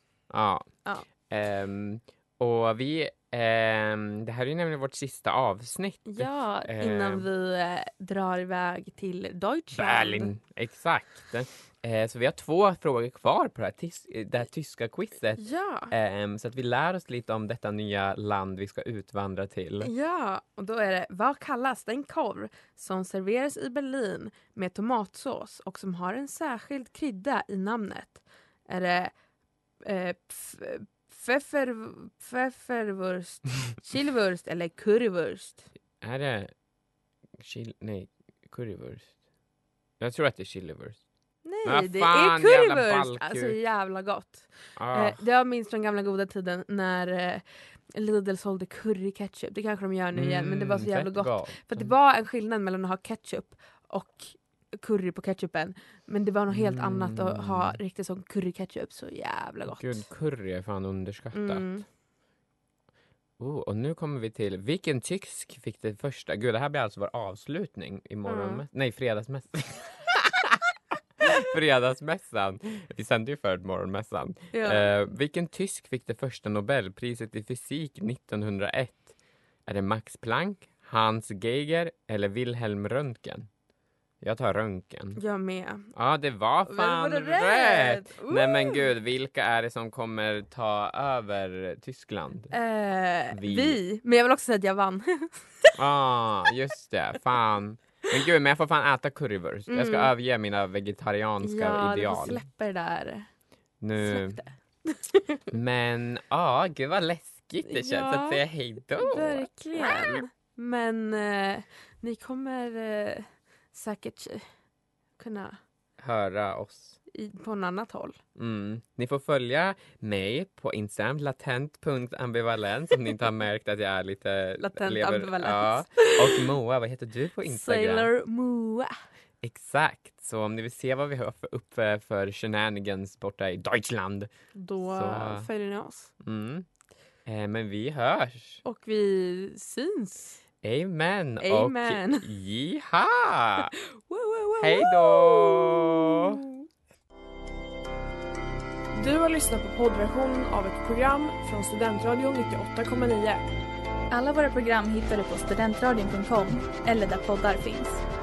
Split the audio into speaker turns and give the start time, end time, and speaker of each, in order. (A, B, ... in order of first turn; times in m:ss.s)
0:00.3-0:07.3 A
0:06.1-0:10.3 B
0:09.7-0:19.9 A
0:15.4-0:15.9 B
0:19.8-0:29.2 B
0:29.8-0:35.7 B
0:36.0-0:36.5 A
0:37.4-0:39.2 A
0:40.0-0:41.0 A
0:41.4-1:00.1 B
0:41.6-0:43.6 A
0:44.8-0:45.2 A
0:50.2-0:51.9 A
0:56.5-0:57.8 A
0:59.7-1:01.8 A
1:01.3-1:01.9 B
1:03.4-1:19.1 A
1:08.2-1:08.6 B
1:14.5-1:14.9 B
1:19.6-1:23.5 A
1:24.2-1:25.2 A
1:25.2-1:25.9 B
1:25.9-1:32.5 A
1:26.7-1:28.9 B
1:32.5-1:35.8 B
1:33.3-1:33.8 A
1:35.8-1:42.4 A
1:39.7-1:40.1 B
1:41.4-1:43.3 B
1:43.8-1:44.4 A
1:44.0-1:45.4 B
1:45.5-1:50.2 A
1:47.6-1:48.4 B
1:49.0-1:54.5 B
1:55.2-1:55.6 B
1:56.0-1:57.0 A
1:57.1-1:58.2 B
1:58.4-2:08.1 A
2:04.6-2:06.5 B
2:07.4-2:08.9 B
2:09.4-2:14.3 A
2:14.6-2:16.1 B
2:14.8-2:15.5 A
2:16.2-2:16.7 A
2:17.3-2:18.6 A
2:18.6-2:20.4 B
2:20.6-2:23.7 A
2:21.4-2:22.3 B
2:24.0-2:26.7 B
2:24.6-2:26.4 A
2:28.9-2:33.5 C
2:34.1-2:38.0 D